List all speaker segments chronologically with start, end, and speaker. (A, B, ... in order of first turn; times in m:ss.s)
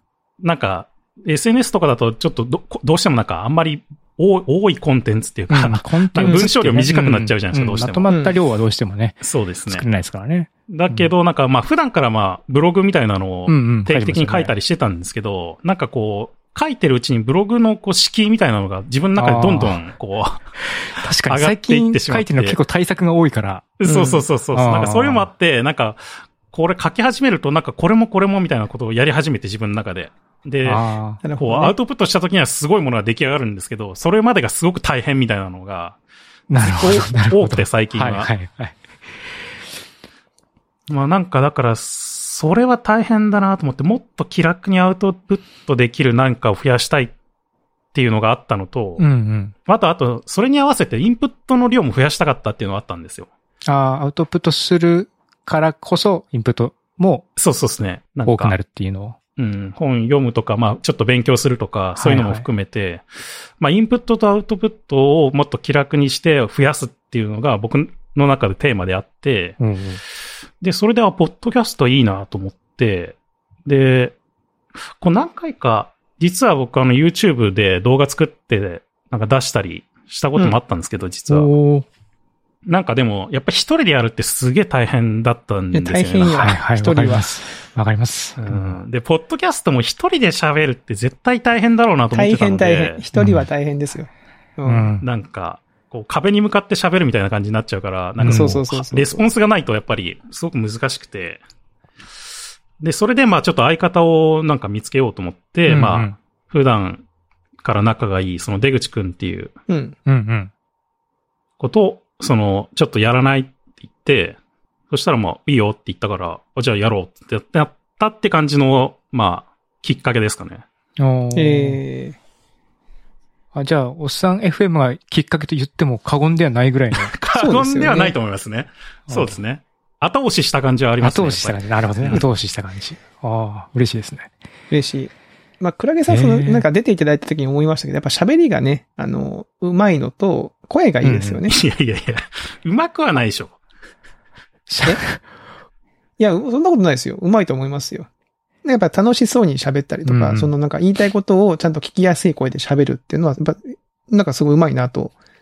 0:00.4-0:08.2 A
0:05.5-0:09.2 B
0:08.1-0:08.4 C
0:09.2-0:09.9 A
0:09.7-0:11.1 B
0:10.7-0:20.4 A
0:13.5-0:14.5 B
0:19.2-0:19.8 B
0:20.6-0:23.8 B
0:21.3-0:22.6 A
0:23.8-0:30.8 A
0:23.8-0:24.2 C
0:24.5-0:25.3 B
0:30.6-0:31.2 B
0:31.2-0:31.8 C
0:31.4-0:36.0 A
0:36.5-0:38.8 B
0:36.6-0:38.3 A
0:40.9-0:47.1 A
0:47.9-0:49.0 A
0:49.0-0:49.5 B
0:49.7-0:53.3 A
0:53.7-0:57.3 B
0:57.4-0:58.6 A
0:58.3-0:59.2 B
0:59.4-1:03.0 A
1:02.0-1:02.5 B
1:03.6-1:09.6 A
1:09.6-1:10.0 B
1:10.6-1:14.2 A
1:15.0-1:21.5 A
1:21.3-1:21.9 B
1:22.7-1:26.5 A
1:25.7-1:27.3 C
1:26.3-1:28.8 B
1:28.4-1:33.0 A
1:32.1-1:34.9 C
1:33.2-1:33.5 B
1:34.7-1:35.0 B
1:35.0-1:41.4 A
1:38.2-1:38.6 B
1:38.3-1:39.2 C
1:42.8-1:47.0 A
1:45.7-1:46.1 B
1:47.6-1:49.5 A
1:49.7-1:50.0 C
1:50.1-1:50.5 B
1:51.6-1:54.4 A
1:54.9-2:00.6 A
2:01.0-2:01.8 B
2:01.4-2:02.2 C
2:03.5-2:07.1 B
2:06.9-2:12.2 A
2:07.4-2:08.2 C
2:11.0-2:14.3 B
2:14.7-2:21.6 C
2:16.1-2:16.7 B
2:21.0-2:21.4 B
2:21.5-2:23.6 A
2:24.7-2:25.2 B
2:26.2-2:28.1 C
2:28.6-2:35.1 C
2:30.0-2:30.5 B